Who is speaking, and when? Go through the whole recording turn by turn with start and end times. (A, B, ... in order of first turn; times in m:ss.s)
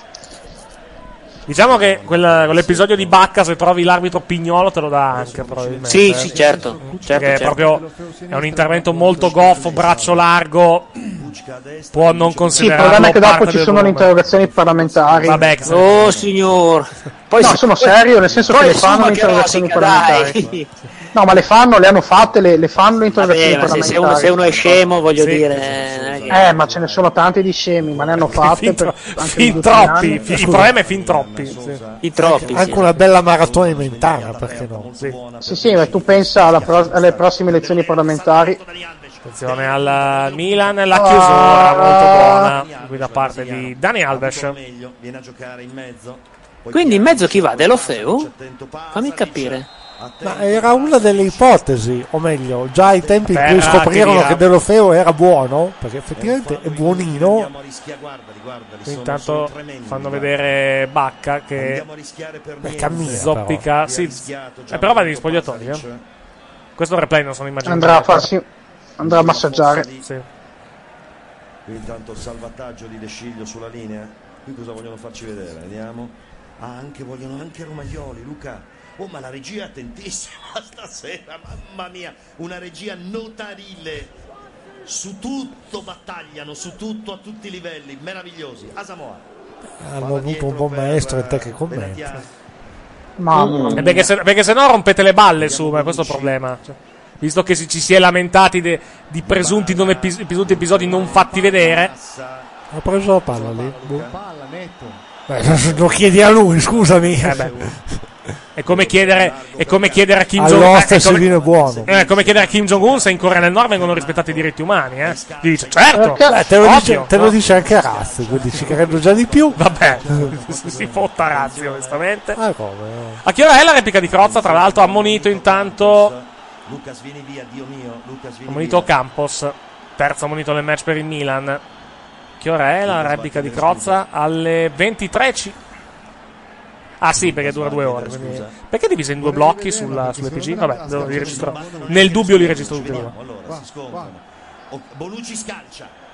0:01.5-0:11.0 A
0:01.5-0:03.2 B
0:05.1-0:06.6 B
0:05.9-0:07.6 C
0:06.2-0:10.1 D
0:09.2-0:10.2 B
0:11.1-0:13.4 B
0:11.9-0:14.1 A
0:12.6-0:15.5 E
0:14.1-0:16.8 B
0:15.2-0:15.9 A
0:15.6-0:18.0 C
0:17.4-0:20.4 E
0:18.0-0:20.6 B
0:18.5-0:20.7 C
0:21.1-0:24.6 E
0:22.2-0:27.2 B
0:23.2-0:26.4 C
0:25.2-0:25.5 A
0:26.3-0:30.3 E
0:27.8-0:28.8 B
0:28.3-0:31.8 A
0:29.4-0:41.1 B
0:30.3-0:30.7 F
0:32.0-0:32.9 C
0:32.2-0:34.9 F
0:35.4-0:38.6 E
0:39.2-0:44.6 A
0:40.9-0:42.5 E
0:41.8-0:51.8 B
0:46.7-0:48.3 C
0:48.9-0:49.6 C
0:50.2-0:57.5 F
0:52.7-0:54.1 B
0:53.3-0:54.4 A
0:56.1-1:00.5 B
0:58.8-1:01.8 A
1:01.5-1:06.0 B
1:02.6-1:03.7 F
1:02.9-1:05.8 A
1:06.8-1:08.3 A
1:07.6-1:08.4 E
1:09.0-1:09.9 E
1:09.0-1:10.1 B
1:11.6-1:24.1 B
1:24.8-1:29.2 B
1:29.8-1:32.2 F
1:30.0-1:32.3 B
1:33.2-1:33.9 E
1:33.3-1:34.0 C
1:33.8-1:41.9 A
1:35.4-1:36.4 B
1:39.2-1:42.5 B
1:42.7-1:44.1 F
1:43.3-1:44.1 B
1:44.0-1:45.0 D
1:45.3-1:47.8 F
1:45.4-1:47.7 B
1:47.2-1:47.5 A
1:48.6-1:51.3 A
1:48.6-2:02.0 B
1:50.4-1:51.9 F
1:51.8-1:57.4 A
1:56.0-1:56.4 E
1:56.2-2:00.2 F
1:59.6-2:02.4 A
2:00.2-2:01.0 D
2:02.3-2:03.2 F
2:03.2-2:06.1 A
2:04.1-2:08.9 B
2:08.5-2:11.6 A
2:12.4-2:15.5 A
2:12.8-2:14.0 B
2:17.0-2:23.1 A
2:17.1-2:18.6 B
2:19.2-2:24.1 D
2:20.9-2:25.9 B